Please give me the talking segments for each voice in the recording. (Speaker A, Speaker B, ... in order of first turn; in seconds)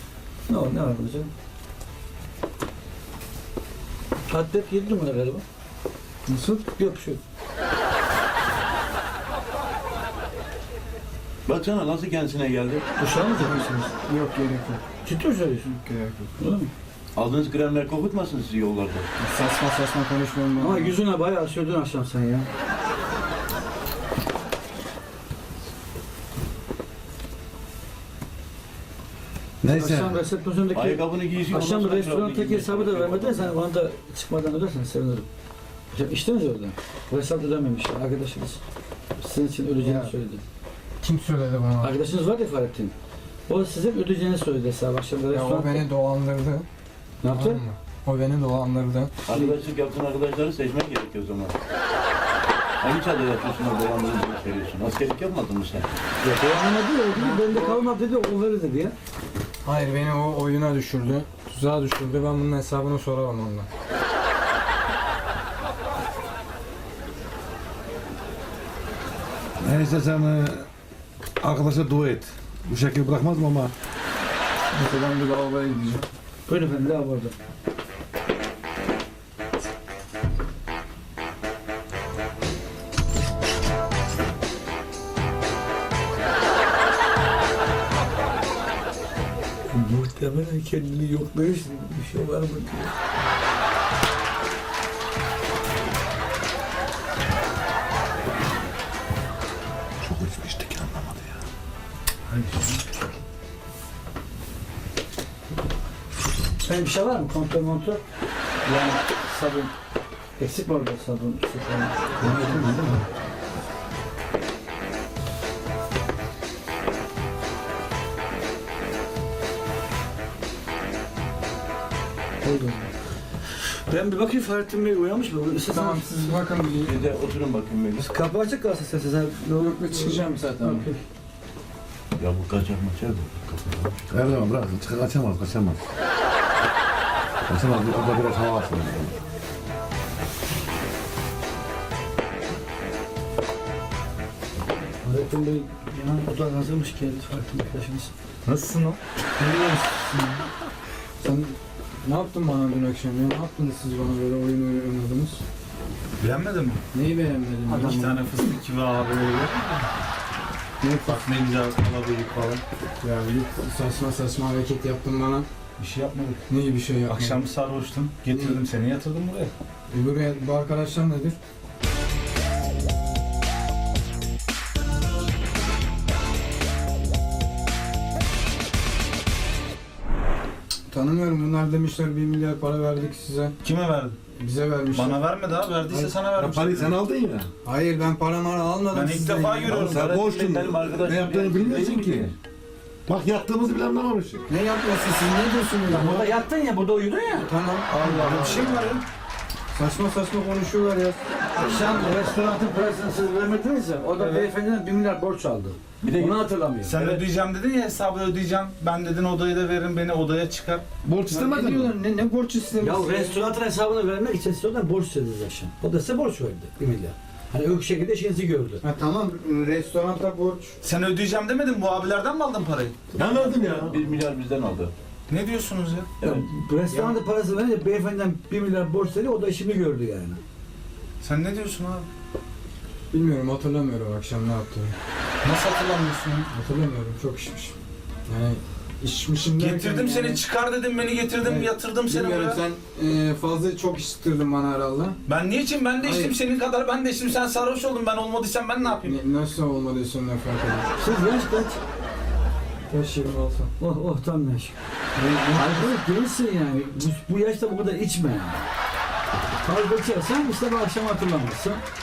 Speaker A: 0.5-1.3, 4.3-5.4, 6.8-7.2, 13.0-13.9, 15.0-15.7, 16.4-16.7, 20.6-22.5, 29.7-35.2, 35.9-38.6, 39.2-40.4, 41.8-42.9, 43.5-45.9, 47.2-47.6, 49.3-49.5, 56.2-58.9, 76.5-77.3, 89.7-92.9, 106.6-108.0, 108.6-109.7, 110.4-113.0, 122.4-122.7, 123.8-126.4, 128.0-131.0, 145.0-148.1, 195.9-197.5, 201.6-207.0, 212.8-218.8, 226.2-230.4, 250.9-251.8, 253.8-254.8, 255.5-258.7, 259.6-261.8
Speaker B: 6.3-6.7, 13.4-14.8, 15.6-16.3, 19.2-20.9, 39.8-40.1, 41.0-42.0, 45.3-46.6, 47.3-49.1, 57.1-57.8, 59.6-63.7, 74.7-76.0, 112.2-113.0, 122.4-122.8, 125.7-127.0, 129.6-130.9, 149.4-150.4, 151.2-155.4, 156.9-158.2, 160.8-161.2, 163.0-165.5, 166.5-167.4, 168.3-168.6, 169.9-171.4, 180.9-183.6, 184.3-185.2, 185.9-186.1, 187.6-190.0, 194.5-196.2, 197.4-198.9, 199.7-202.1, 211.3-213.4, 218.8-220.8, 226.9-227.2, 233.1-234.9, 236.5-237.7, 238.3-240.4, 241.4-245.2, 246.0-246.3, 249.0-250.9, 252.9-253.7, 255.2-255.9
Speaker C: 11.4-12.8, 17.1-19.1, 30.7-33.5, 49.2-51.5, 52.8-55.9, 126.8-128.1, 132.2-134.1, 189.7-192.3, 206.0-206.4, 206.9-207.2, 223.2-224.9
Speaker D: 29.6-30.2, 69.6-70.7, 71.4-73.7, 100.0-101.4, 134.1-135.8, 137.5-139.2, 186.3-187.5, 189.7-192.3, 193.1-194.4, 195.9-196.3, 211.0-211.9, 223.2-224.0
Speaker E: 102.3-102.8, 148.4-149.0, 156.2-156.8, 157.7-159.9, 161.0-162.6, 165.8-166.4, 167.1-169.5, 183.6-184.1, 184.9-186.9, 188.9-190.0, 198.0-199.0, 204.2-204.5, 206.8-210.8, 220.8-223.1, 225.3-226.1, 231.2-232.1, 235.4-236.5, 239.6-242.6, 245.3-249.2